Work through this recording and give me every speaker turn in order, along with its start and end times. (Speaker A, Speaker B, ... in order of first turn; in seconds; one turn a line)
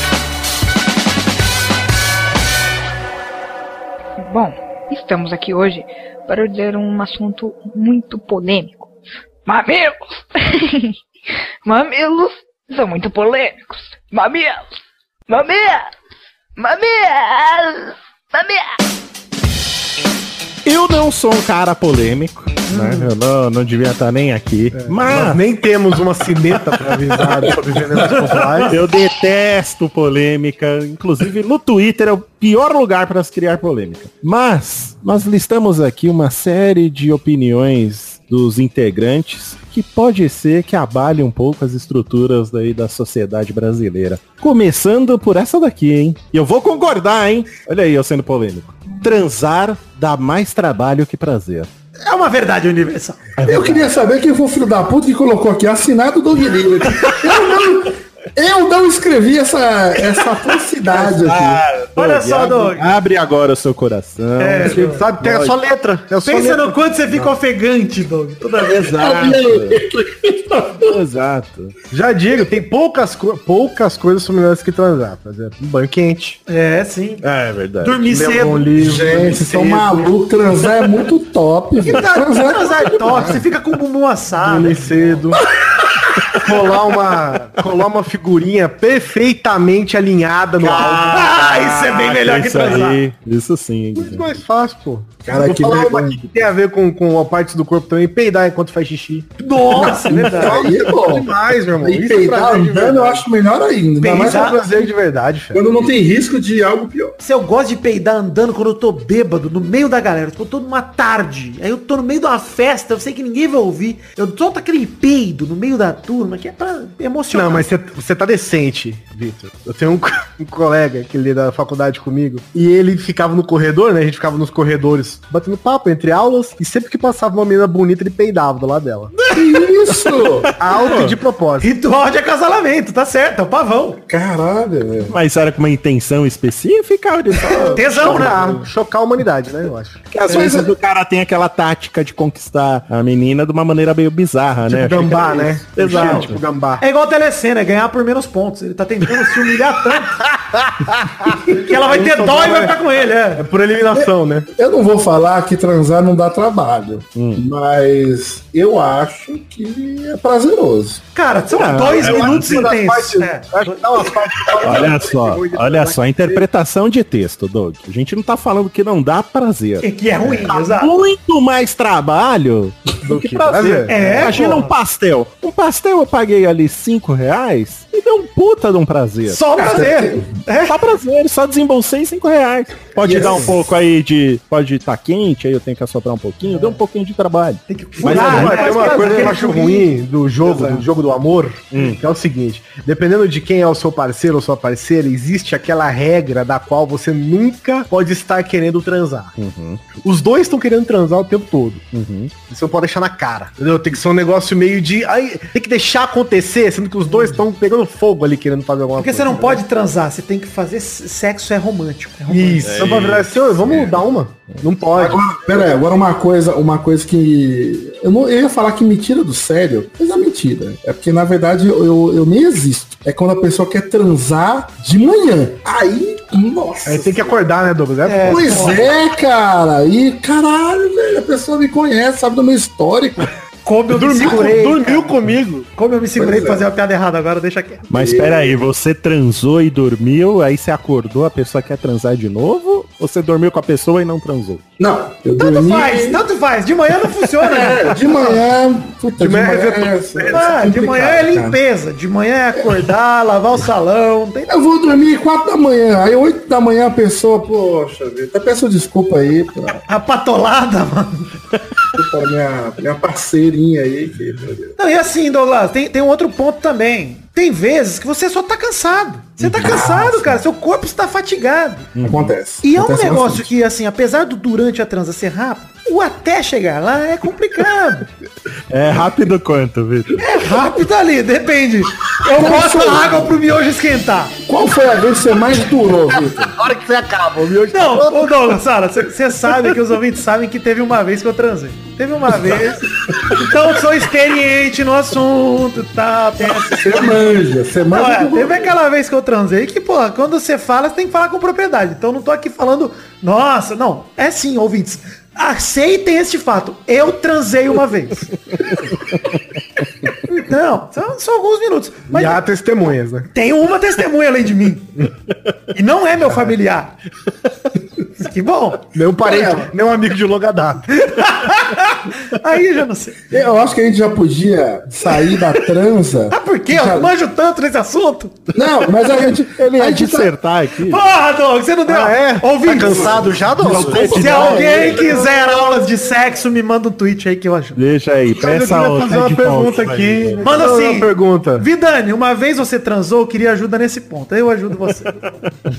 Speaker A: 4.2-8.9
Speaker A: 9.4-10.9
Speaker A: 11.6-14.8
Speaker A: 15.3-15.9
Speaker A: 16.6-18.8
Speaker B: 20.6-25.4
Speaker C: 22.7-23.1
Speaker D: 24.8-28.8
Speaker B: 26.8-27.5
Speaker B: 28.6-51.7
Speaker C: 52.0-53.4
Speaker B: 53.4-53.8
Speaker E: 53.4-61.6
Speaker B: 60.9-65.5
Speaker C: 62.0-62.9
Speaker C: 64.4-65.0
Speaker D: 64.7-66.8
Speaker C: 66.2-68.9
Speaker B: 68.5-69.8
Speaker E: 68.9-71.0
Speaker B: 70.8-71.7
Speaker D: 71.9-76.4
Speaker C: 76.5-77.2
Speaker B: 77.2-78.1
Speaker C: 77.8-78.7
Speaker D: 78.1-80.1
Speaker E: 78.8-83.5
Speaker C: 81.8-84.8
Speaker D: 84.4-85.4
Speaker D: 86.4-91.3
Speaker B: 90.6-94.3
Speaker C: 91.0-93.0
Speaker D: 93.9-99.3
Speaker E: 95.2-96.4
Speaker C: 99.4-100.6
Speaker E: 99.8-104.6
Speaker D: 100.2-103.2
Speaker C: 104.0-104.6
Speaker D: 104.2-105.6
Speaker E: 105.5-107.1
Speaker C: 107.2-117.7
Speaker D: 117.3-129.1
Speaker E: 129.3-130.5
Speaker B: 130.5-131.2
Speaker D: 130.6-131.7
Speaker C: 131.6-134.0
Speaker E: 134.1-135.2
Speaker B: 135.1-138.5
Speaker E: 137.5-138.4
Speaker C: 137.6-138.4
Speaker D: 137.8-140.0
Speaker B: 140.1-146.4
Speaker E: 140.2-140.7
Speaker D: 144.7-146.8
Speaker E: 145.9-146.2
Speaker C: 146.8-150.3
Speaker C: 151.5-153.5
Speaker D: 151.7-152.8
Speaker D: 153.4-154.5
Speaker E: 153.9-161.0
Speaker B: 157.2-157.4
Speaker C: 161.1-163.8
Speaker B: 161.5-162.7
Speaker D: 161.9-166.4
Speaker B: 164.6-179.4
Speaker C: 169.8-170.9
Speaker D: 173.0-174.6
Speaker C: 173.9-174.7
Speaker C: 179.3-180.8
Speaker E: 179.5-180.4
Speaker B: 180.7-189.3
Speaker E: 183.0-183.7
Speaker C: 187.7-189.9
Speaker D: 188.0-199.3
Speaker E: 190.5-190.7
Speaker B: 191.7-192.0
Speaker B: 199.4-199.9
Speaker D: 200.0-201.8
Speaker B: 201.9-202.3
Speaker D: 202.5-209.6
Speaker C: 207.0-207.4
Speaker C: 209.0-212.8
Speaker D: 212.3-215.4
Speaker B: 212.6-214.0
Speaker E: 214.9-227.4
Speaker D: 226.8-228.8
Speaker C: 228.0-228.9
Speaker E: 228.2-233.3
Speaker C: 233.6-235.1
Speaker D: 233.9-235.7
Speaker C: 235.7-237.9
Speaker E: 236.2-236.6
Speaker B: 237.9-244.6
Speaker E: 237.9-238.6
Speaker E: 244.8-246.2
Speaker C: 245.4-248.4
Speaker E: 247.3-251.6
Speaker D: 249.2-250.5
Speaker C: 250.3-254.5
Speaker E: 254.5-259.8
Speaker C: 259.9-261.3
Speaker E: 261.9-264.8
Speaker C: 264.8-271.9
Speaker B: 269.4-269.9
Speaker E: 269.6-270.4
Speaker B: 271.9-272.3
Speaker E: 272.0-273.5
Speaker C: 272.6-278.1
Speaker B: 278.7-280.2
Speaker C: 280.2-284.3
Speaker E: 282.2-283.3
Speaker E: 284.4-286.5
Speaker D: 286.5-288.4
Speaker C: 287.7-297.2
Speaker E: 296.4-298.7
Speaker C: 297.9-308.3
Speaker C: 310.2-312.4
Speaker D: 312.1-313.3
Speaker C: 313.3-314.9
Speaker C: 315.7-316.9
Speaker C: 318.1-318.9
Speaker D: 318.9-320.9
Speaker E: 319.2-319.7
Speaker C: 320.9-323.3
Speaker E: 323.3-327.1
Speaker C: 326.3-328.4
Speaker E: 328.5-330.3
Speaker B: 329.5-331.1
Speaker C: 330.9-333.2
Speaker D: 331.9-335.1
Speaker E: 332.8-335.1
Speaker B: 333.6-334.8
Speaker C: 334.0-337.8
Speaker B: 337.8-340.6
Speaker D: 338.4-341.6
Speaker C: 340.4-345.3